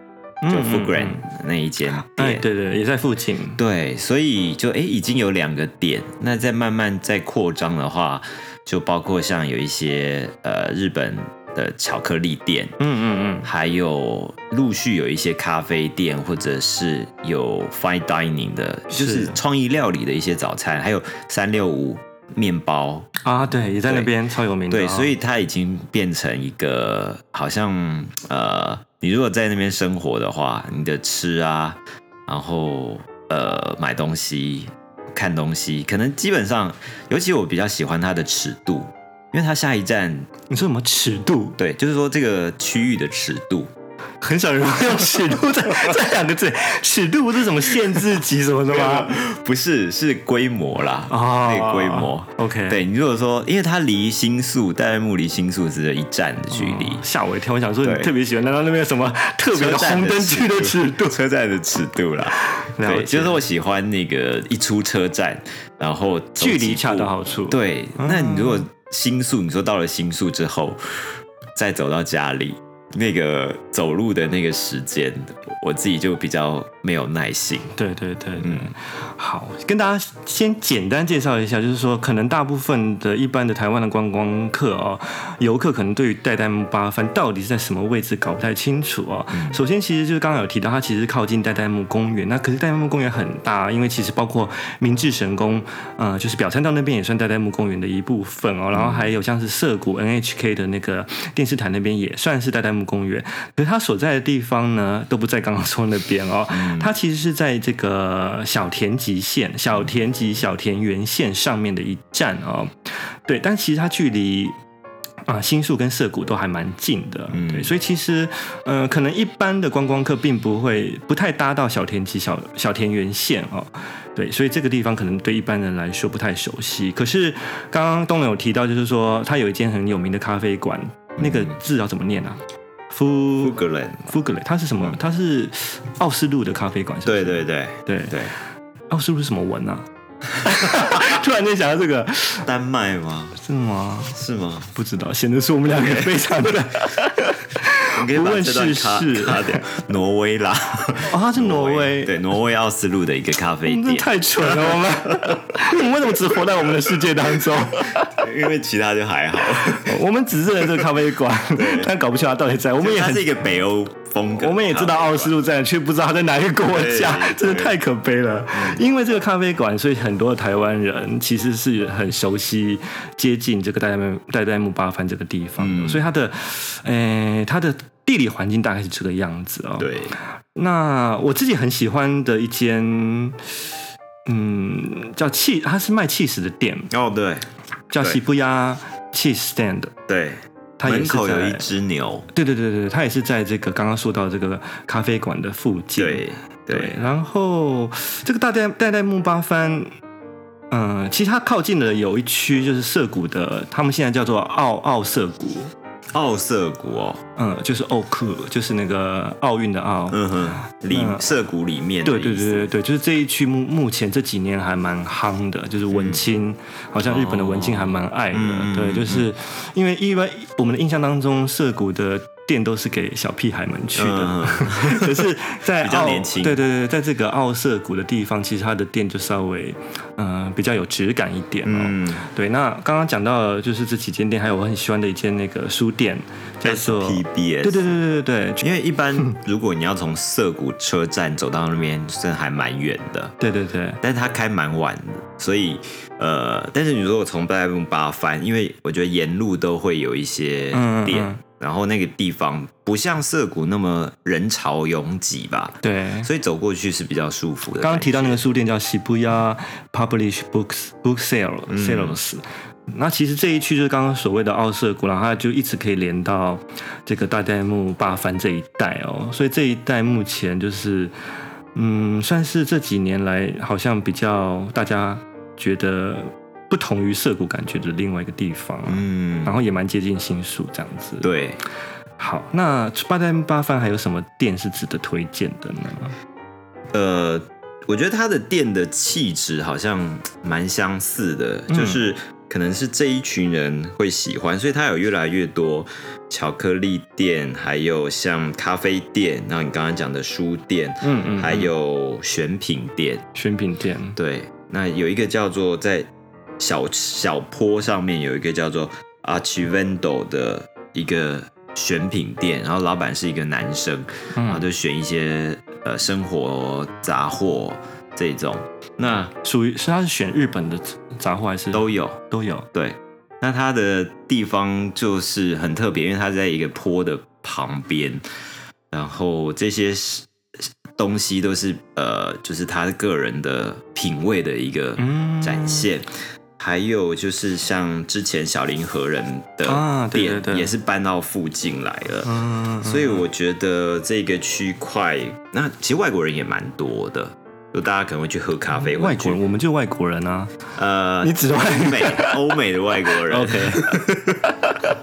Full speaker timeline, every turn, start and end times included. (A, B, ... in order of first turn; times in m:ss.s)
0:00.4-0:01.2 A
0:00.5-0:02.4 B
0:01.9-0:03.6 A
0:03.6-0:12.7 B
0:12.8-0:13.5 A
0:13.4-0:23.1 B
0:18.9-0:19.4 A
0:23.2-0:25.1 A
0:23.9-0:24.1 B
0:24.7-0:40.3 B
0:40.5-0:41.6 A
0:41.6-0:43.7 B
0:44.2-0:49.2 A
0:48.7-0:57.0 B
0:51.1-0:52.8 A
0:56.5-1:01.2 A
0:57.8-0:58.1 B
0:59.5-1:10.8 B
1:02.5-1:03.4 A
1:06.4-1:08.7 A
1:11.6-1:17.7 B
1:17.7-1:54.6 A
1:18.4-1:18.7 B
1:29.3-1:29.6 B
1:38.7-1:39.1 B
1:46.5-1:46.9 B
1:55.3-2:18.3 A
1:57.3-1:57.7 B
2:11.2-2:11.6 B
2:13.4-2:14.1 B
2:17.0-2:18.3 B
2:18.9-2:22.5 A
2:22.4-2:23.4 B
2:23.4-2:24.2 A
2:24.1-2:24.7 B
2:24.7-2:29.7 A
2:25.7-2:26.2 B
2:27.9-2:35.4 B
2:31.1-2:32.2 A
2:33.6-2:38.2 A
2:38.2-2:40.0 B
2:39.8-2:43.3 A
2:40.6-2:41.0 B
2:41.5-2:41.9 B
2:42.8-2:45.4 B
2:44.4-3:00.0 A
2:46.6-2:47.8 B
2:48.5-2:48.8 B
2:55.6-2:56.1 B
2:59.8-3:00.2 B
3:00.6-3:03.4 A
3:04.3-3:06.9 A
3:06.9-3:07.5 B
3:07.9-3:09.9 A
3:10.1-3:12.3 B
3:10.8-3:11.7 A
3:12.3-3:19.9 A
3:16.0-3:17.0 B
3:20.7-3:25.7 A
3:26.1-3:27.2 B
3:27.4-3:30.2 A
3:30.1-3:32.7 B
3:30.9-3:31.3 A
3:32.0-3:58.7 A
3:35.9-3:36.2 B
3:37.0-3:39.3 B
3:44.0-3:46.6 B
3:51.6-3:52.3 B
3:56.6-3:58.0 B
3:58.6-4:03.4 B
4:03.4-4:04.0 A
4:04.0-4:18.5 B
4:10.7-4:11.4 A
4:15.8-4:16.3 A
4:17.8-4:31.1 A
4:21.7-4:22.2 B
4:31.8-4:41.3 A
4:38.9-4:39.6 B
4:41.2-4:41.6 B
4:42.2-4:46.1 A
4:46.9-5:03.2 B
4:51.7-4:52.0 A
5:01.0-5:01.7 A
5:03.4-5:04.2 A
5:04.2-5:19.3 B
5:14.4-5:14.7 A
5:19.4-5:22.7 A
5:21.7-5:22.2 B
5:22.7-5:28.2 B
5:28.9-5:30.3 B
5:31.0-5:42.3 B
5:35.0-5:35.9 A
5:39.6-5:40.7 A
5:42.2-5:43.2 A
5:42.8-5:49.4 B
5:48.8-5:50.5 A
5:50.8-5:54.5 B
5:51.2-5:52.5 A
5:53.2-5:54.1 A